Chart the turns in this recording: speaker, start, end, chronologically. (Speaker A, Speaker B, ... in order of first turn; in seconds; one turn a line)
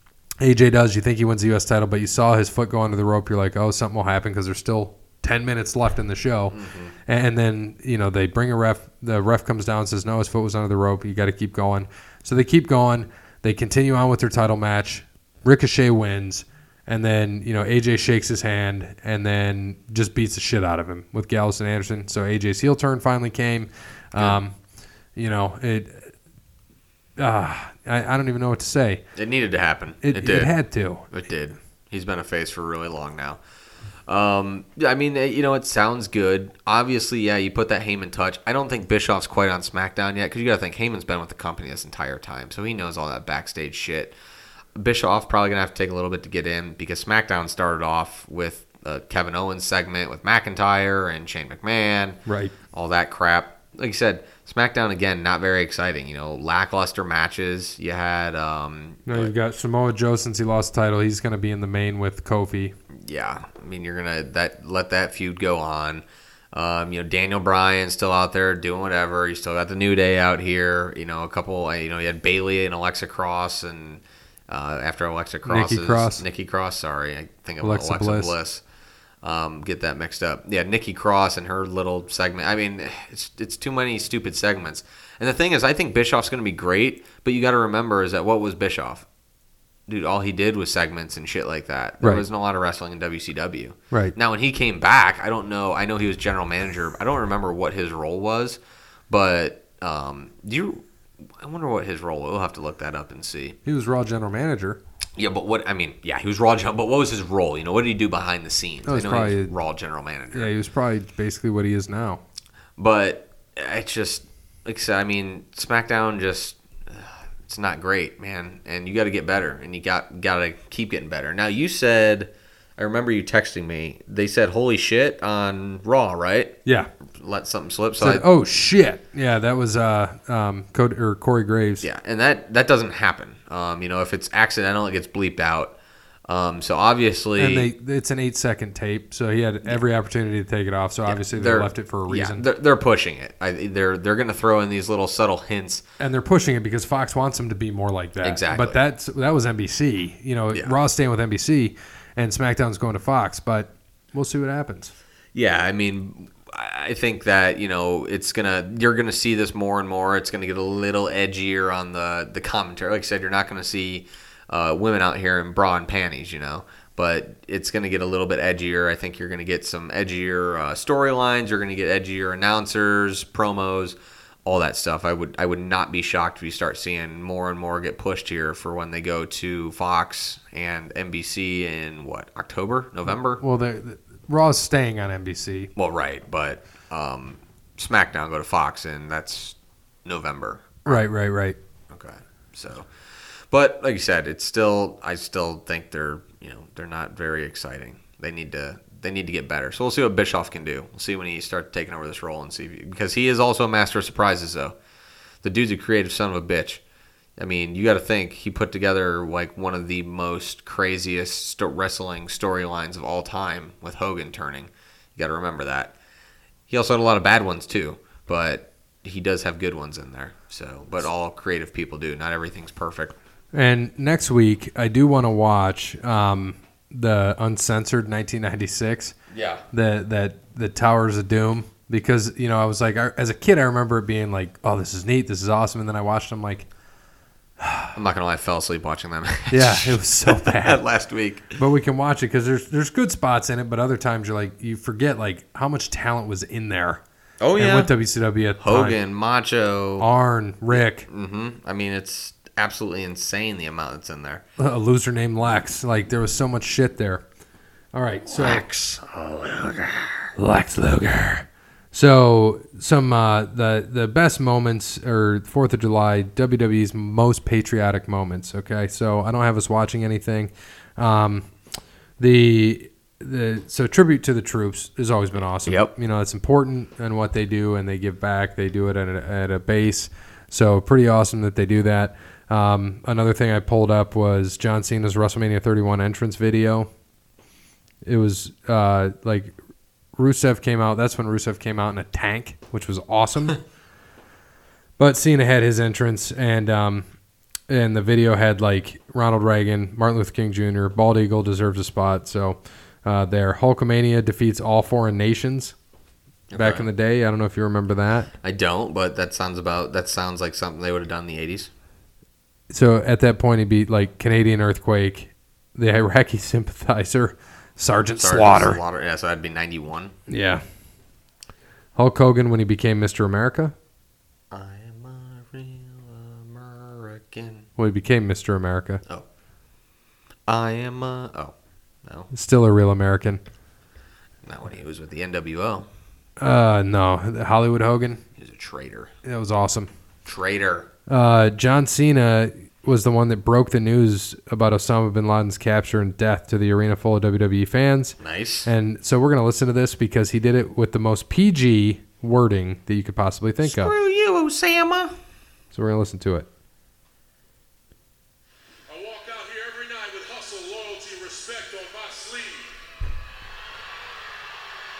Speaker A: 0.4-24.6
Speaker B: 6.5-6.9
Speaker A: 25.2-26.1
Speaker A: 27.2-29.0
Speaker B: 29.2-30.5
Speaker A: 30.0-31.1
Speaker B: 31.1-33.4
Speaker B: 34.1-44.1
Speaker B: 44.8-52.2
Speaker A: 52.3-52.5
Speaker B: 52.7-59.3
Speaker A: 59.1-62.7
Speaker B: 62.9-78.6
Speaker A: 75.5-76.2
Speaker A: 77.6-78.3
Speaker B: 79.2-89.1
Speaker B: 89.9-103.6
Speaker A: 103.7-104.8
Speaker B: 105.2-110.5
Speaker A: 108.8-109.5
Speaker A: 110.3-112.2
Speaker B: 112.8-126.6
Speaker A: 126.7-126.9
Speaker B: 127.1-128.2
Speaker A: 128.0-131.8
Speaker B: 131.8-135.8
Speaker B: 136.3-137.7
Speaker A: 137.4-142.5
Speaker B: 141.1-145.8
Speaker A: 146.0-154.9
Speaker B: 148.2-148.8
Speaker B: 155.3-183.4
Speaker A: 183.4-185.7
Speaker B: 185.8-191.0
Speaker A: 190.8-191.6
Speaker B: 191.9-192.9
Speaker B: 193.5-204.8
Speaker B: 205.4-206.8
Speaker B: 207.4-216.0
Speaker B: 216.7-223.2
Speaker A: 223.5-229.2
Speaker B: 229.3-229.6
Speaker A: 229.7-236.7
Speaker A: 237.6-238.0
Speaker B: 237.9-241.6
Speaker A: 239.5-240.8
Speaker A: 241.6-247.0
Speaker B: 247.4-247.9
Speaker A: 247.6-249.0
Speaker B: 248.6-250.1
Speaker A: 250.0-251.1
Speaker B: 250.7-254.4
Speaker A: 254.6-257.2
Speaker A: 257.9-258.6
Speaker B: 258.3-260.3
Speaker A: 260.4-271.5
Speaker A: 272.2-286.9
Speaker B: 275.7-275.9
Speaker A: 288.0-289.6
Speaker A: 290.2-293.6
Speaker A: 295.0-297.1
Speaker A: 297.7-305.8
Speaker B: 306.5-306.9
Speaker A: 306.6-308.3
Speaker B: 308.4-311.7
Speaker A: 312.7-318.8
Speaker B: 318.2-320.1
Speaker A: 320.3-320.6
Speaker A: 322.0-323.8
Speaker B: 324.5-327.7
Speaker A: 327.8-329.0
Speaker B: 330.5-331.5
Speaker A: 332.3-333.4
Speaker B: 334.4-335.9
Speaker A: 336.4-338.2
Speaker B: 338.4-339.1
Speaker A: 339.2-339.9
Speaker B: 340.2-340.9
Speaker A: 341.1-353.9
Speaker B: 348.2-348.7
Speaker B: 353.6-355.1
Speaker A: 355.7-356.5
Speaker C: 358.9-362.8